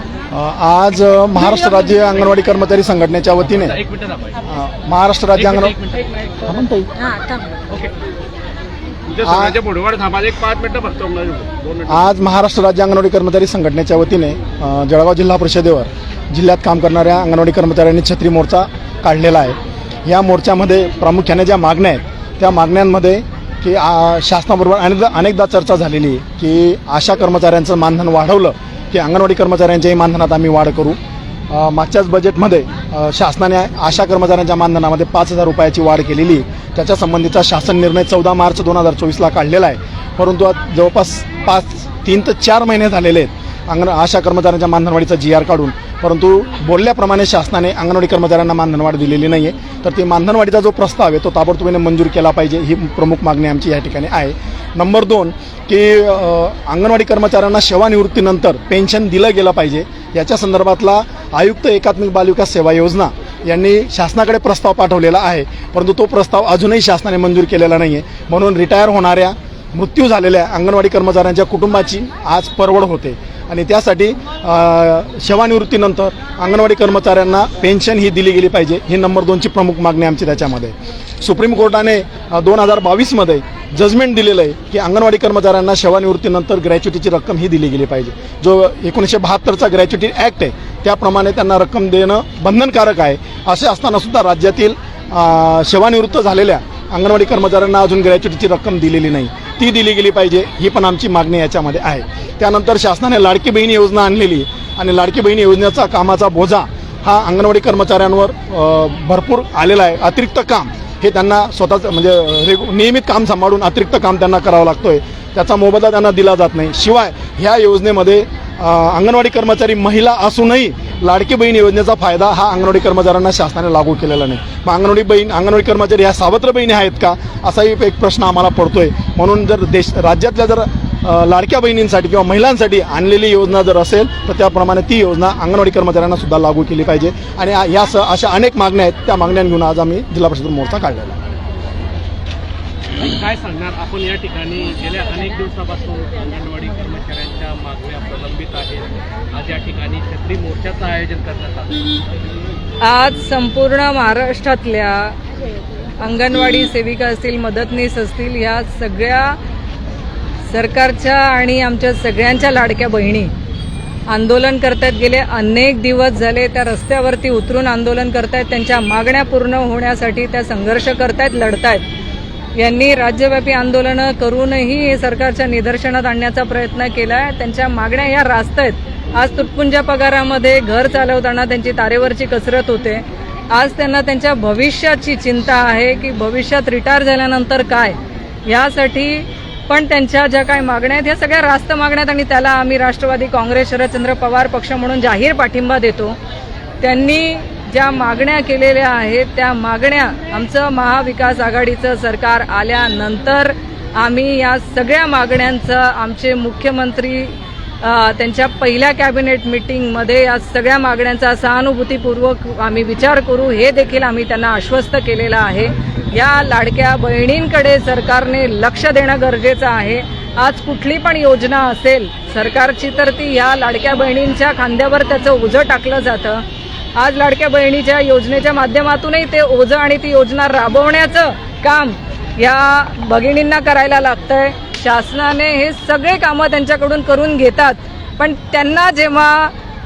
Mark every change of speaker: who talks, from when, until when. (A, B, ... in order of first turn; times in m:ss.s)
0:00.3-0:03.8 A
0:03.7-0:04.4 B
0:04.4-0:05.8 A
0:05.5-0:06.4 B
0:06.4-0:07.0 A
0:07.7-0:07.9 B
0:09.1-0:12.0 B
0:09.2-0:09.6 A
0:11.9-0:31.0 A
0:31.5-2:21.2 A
2:23.0-2:32.0 B
2:32.8-2:35.2 C
2:36.0-2:39.4 C
2:40.5-2:43.3 C
2:44.1-2:51.8 C
2:52.6-3:16.2 C
3:16.8-3:46.4 C
3:47.0-3:59.5 C